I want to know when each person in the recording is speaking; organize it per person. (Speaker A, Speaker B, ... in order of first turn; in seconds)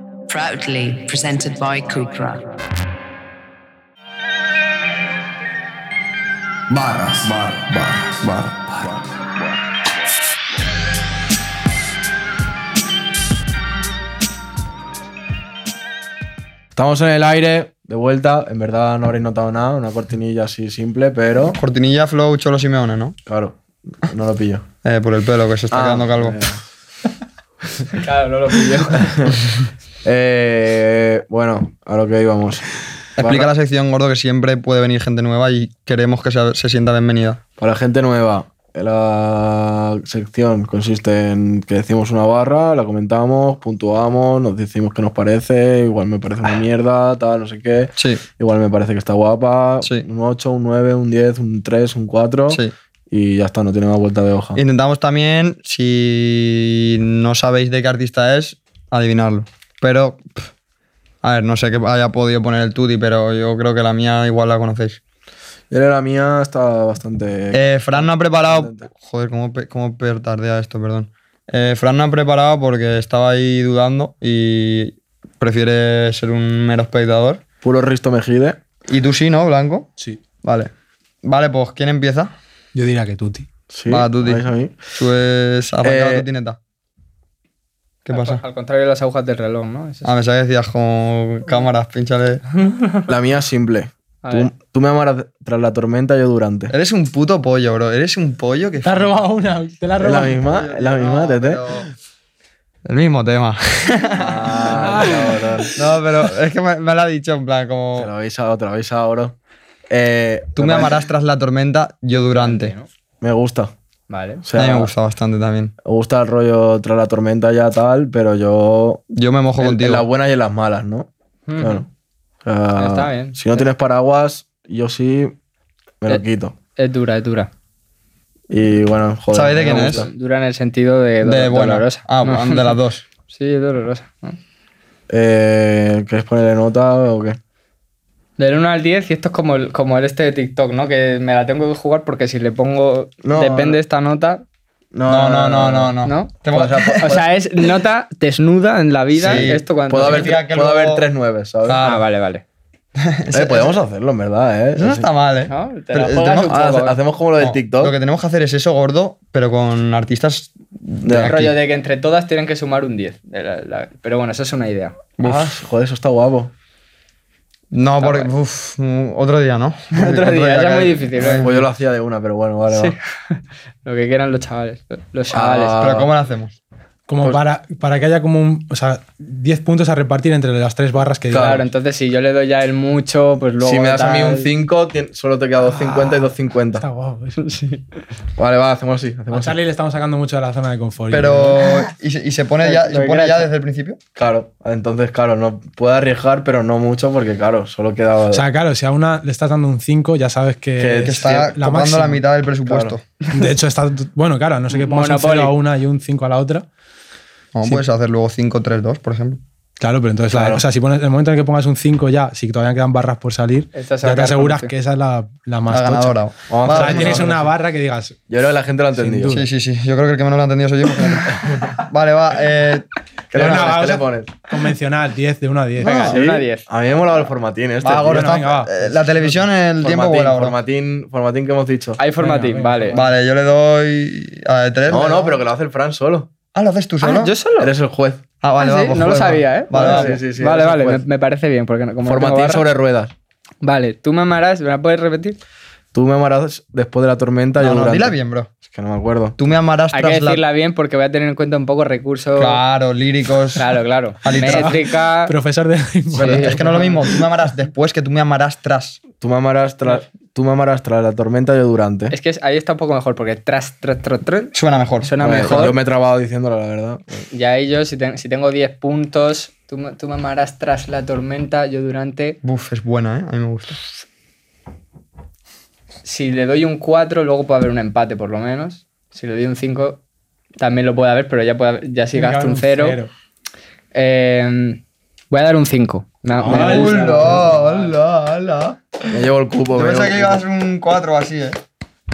Speaker A: 0.3-2.4
Speaker B: 6.7-7.3, 8.2-8.5, 21.5-23.2, 24.8-26.4, 33.1-37.4, 48.0-48.2, 54.5-60.5, 61.2-65.0, 67.5-77.4, 78.9-79.9, 80.4-80.7, 81.2-82.3, 83.9-86.6, 88.0-88.4, 90.0-92.4, 96.7-99.2, 100.4-101.9, 102.8-108.1, 110.5-112.7, 114.5-115.7, 119.1-120.1, 129.3-130.1, 131.2-133.0, 145.1-147.2, 149.1-151.1, 151.6-152.0, 153.0-153.8, 154.8-156.5, 157.4-161.6, 165.2-165.5, 167.7-171.5, 175.8-176.6, 191.1-194.0, 201.0-203.0, 207.5-209.4, 215.7-217.4, 219.3-222.9, 225.8-226.2, 227.8-230.6, 232.9-235.4, 236.5-237.3, 238.4-240.2, 247.6-248.5, 249.4-250.4, 252.4-253.7, 254.2-254.8, 256.1-259.0, 264.5-265.7, 272.4-273.8, 286.5-291.6
Speaker C: 7.2-8.2, 16.8-21.6, 23.3-24.6, 25.7-26.6, 28.9-29.4, 30.0-33.5, 37.6-54.6, 65.7-68.9, 77.6-78.6, 83.7-84.8, 85.8-86.3, 93.1-96.7, 100.0-101.6, 104.1-105.8, 108.0-109.3, 109.9-111.0, 113.2-113.7, 114.4-114.9, 115.8-119.0, 119.6-121.1, 121.6-121.9, 122.4-125.3, 126.0-126.5, 128.5-130.1, 135.1-137.4, 143.2-143.8, 144.9-145.9, 146.5-147.2, 149.2-151.8, 153.3-155.1, 156.5-157.9, 161.1-161.3, 165.2-166.5, 171.4-172.9, 175.3-176.1, 181.3-181.7, 183.6-186.8, 188.4-189.6, 194.2-198.4, 200.8-201.3, 202.7-202.9, 210.3-210.6, 216.5-217.3, 218.3-219.4, 221.1-221.7, 223.3-224.4, 226.1-228.4, 229.8-232.0, 234.9-236.3, 237.6-238.2, 239.7-241.0, 242.0-243.1, 245.9-248.2, 248.7-249.3, 256.2-256.6, 259.2-262.1, 265.2-267.0, 289.1-290.4
Speaker D: 27.9-29.2, 88.1-90.1, 92.6-93.1, 94.2-94.5, 112.1-112.9, 114.1-114.4, 121.5-121.8, 122.8-123.7, 126.8-127.5, 129.7-134.4, 138.4-144.4, 146.0-146.3, 147.0-150.3, 151.8-152.4, 155.5-157.0, 161.2-164.9, 168.0-168.3, 169.9-171.6, 172.7-175.8, 181.3-184.5, 187.4-188.0, 192.6-193.5, 204.7-205.5, 213.7-214.7, 225.9-226.7, 232.0-233.0, 237.0-237.7, 238.6-242.7, 243.6-245.4, 249.9-252.6, 253.6-255.3, 262.1-265.8, 267.3-272.4, 276.0-280.0, 280.6-283.0, 283.9-287.2
Speaker E: 82.7-83.5, 98.8-100.4, 104.9-105.7, 177.1-181.5, 185.6-187.4, 189.3-191.8, 198.3-202.2, 203.3-206.7, 209.8-218.2, 218.9-219.4, 223.3-226.1, 228.1-229.4, 232.2-233.1, 254.4-257.5, 282.1-283.1, 286.4-287.8